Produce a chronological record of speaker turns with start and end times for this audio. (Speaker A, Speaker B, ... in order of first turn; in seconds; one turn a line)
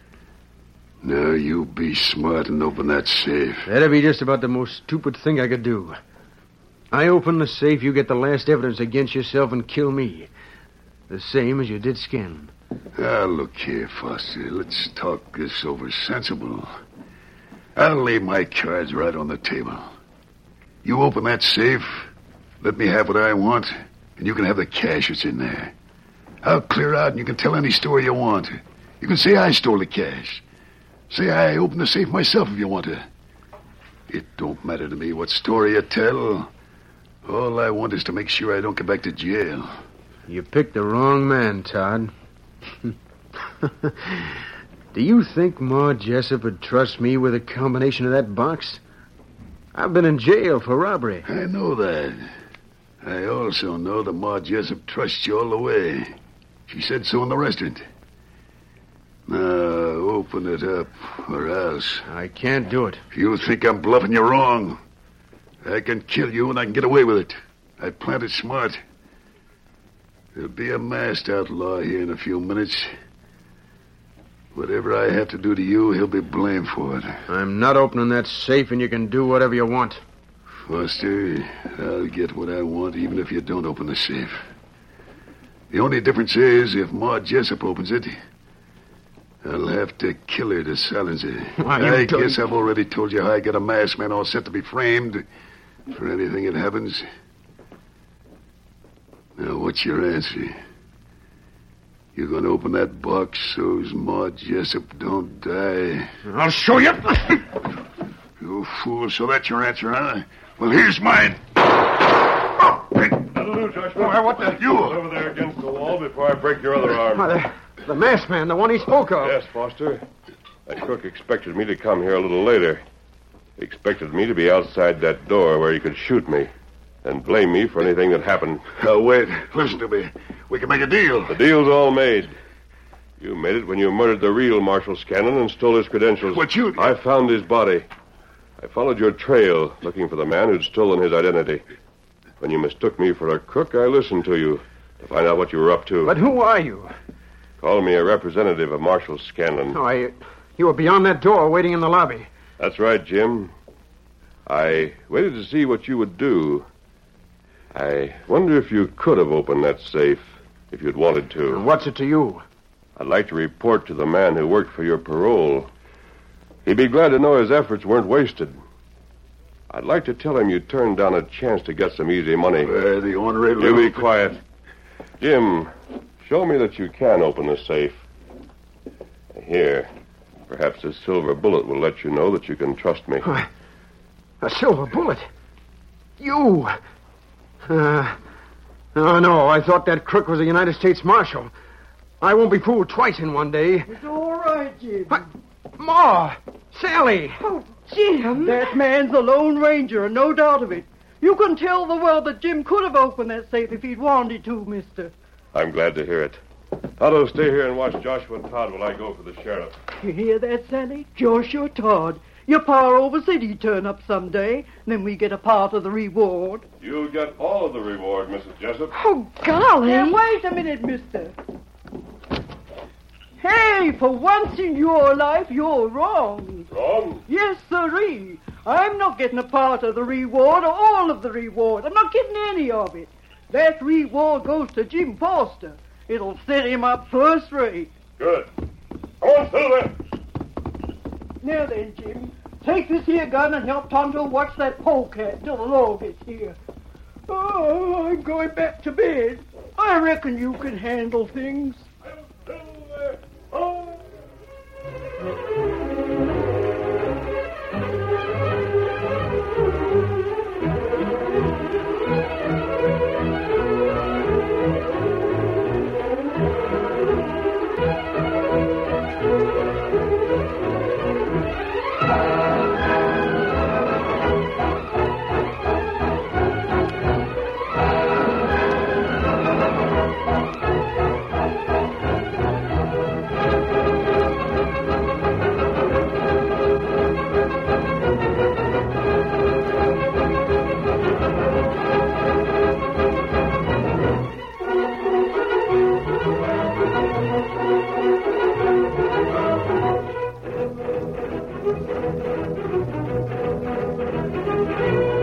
Speaker A: 1.0-3.7
Speaker B: 3.6-6.0
Speaker B: 6.9-10.3
Speaker B: 11.1-12.5
Speaker A: 12.9-16.7
Speaker A: 17.8-19.9
Speaker A: 20.8-25.7
Speaker A: 26.4-30.4
Speaker A: 31.1-33.0
Speaker A: 34.1-36.5
Speaker A: 37.2-39.7
Speaker B: 40.3-42.1
Speaker B: 43.6-44.4
Speaker B: 44.9-48.8
Speaker B: 49.7-51.3
Speaker A: 51.2-52.3
Speaker A: 53.0-56.1
Speaker A: 56.7-57.8
Speaker A: 59.3-62.0
Speaker B: 62.1-63.0
Speaker A: 63.1-64.8
Speaker A: 65.6-68.8
Speaker A: 70.3-72.9
Speaker A: 74.5-77.1
Speaker B: 77.3-80.0
Speaker A: 80.6-84.5
Speaker A: 85.7-88.1
Speaker A: 89.4-95.2
Speaker B: 91.6-92.4
Speaker A: 95.9-97.0
Speaker A: 99.4-100.5
Speaker A: 102.1-106.1
Speaker B: 106.2-107.5
Speaker A: 108.4-111.6
Speaker C: 113.3-117.3
Speaker B: 114.0-114.6
Speaker A: 114.5-115.0
Speaker B: 117.1-119.4
Speaker C: 119.2-120.0
Speaker C: 120.7-122.8
Speaker C: 123.6-126.5
Speaker C: 127.0-128.6
Speaker A: 128.8-131.4
Speaker C: 131.3-132.3
Speaker C: 133.2-137.8
Speaker A: 136.3-136.9
Speaker C: 138.6-141.6
Speaker C: 142.4-146.2
Speaker B: 146.0-146.9
Speaker C: 147.6-149.8
Speaker B: 149.7-152.3
Speaker C: 152.6-153.5
Speaker C: 154.4-156.7
Speaker C: 157.7-161.6
Speaker B: 161.5-162.4
Speaker C: 163.0-165.7
Speaker C: 166.6-168.6
Speaker C: 169.7-172.7
Speaker A: 172.6-174.0
Speaker C: 173.6-174.4
Speaker C: 175.2-175.7
Speaker C: 176.2-178.0
Speaker C: 179.3-179.9
Speaker C: 180.5-183.3
Speaker B: 184.4-185.3
Speaker B: 186.2-186.7
Speaker B: 187.7-188.2
Speaker B: 188.9-191.5
Speaker B: 192.2-193.9
Speaker D: 193.9-195.2
Speaker B: 195.8-197.6
Speaker E: 197.9-198.6
Speaker D: 198.3-205.1
Speaker C: 205.5-206.4
Speaker C: 207.0-209.8
Speaker D: 210.0-216.6
Speaker C: 216.8-218.9
Speaker E: 218.9-220.2
Speaker D: 219.8-221.3
Speaker D: 223.4-226.7
Speaker C: 226.7-227.2
Speaker D: 227.3-237.9
Speaker C: 238.2-238.5
Speaker C: 239.2-239.9
Speaker D: 241.4-246.6
Speaker D: 247.3-251.8
Speaker C: 252.5-253.8